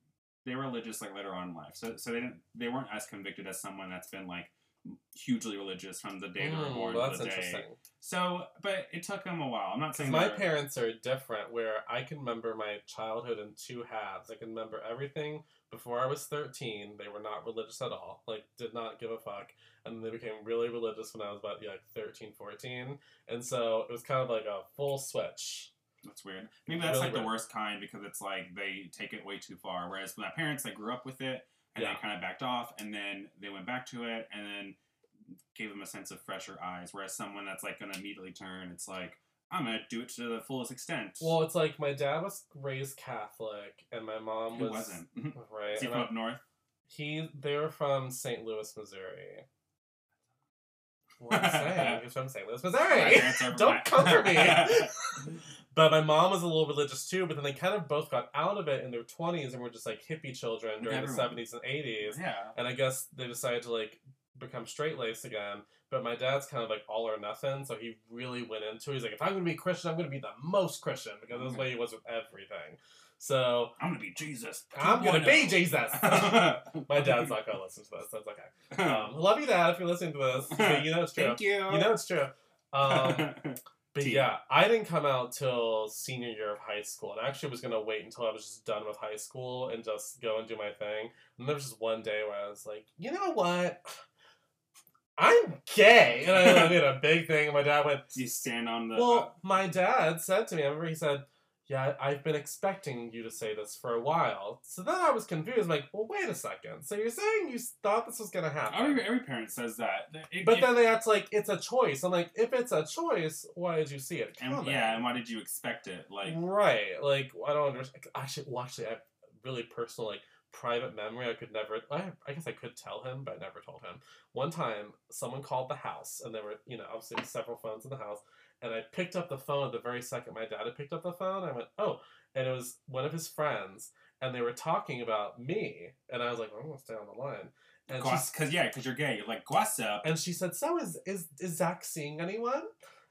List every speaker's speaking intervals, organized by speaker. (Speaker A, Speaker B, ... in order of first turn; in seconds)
Speaker A: 0.4-10.5, 26.0-34.8, 35.5-41.3, 44.5-46.4, 51.3-52.0, 52.8-54.9, 60.8-61.4, 62.0-62.5, 71.3-71.7, 73.8-77.3, 78.7-79.1, 80.5-81.9, 82.8-84.3, 96.3-96.8, 98.1-99.3, 108.7-110.8, 114.4-116.4, 137.9-140.1
Speaker B: 6.4-7.8, 9.9-25.7, 26.7-27.3, 31.7-32.0, 41.2-46.1, 46.9-49.5, 51.2-73.8, 74.7-83.3, 83.9-93.9, 95.2-98.1, 98.9-109.0, 110.4-115.0, 116.2-138.3, 140.0-142.7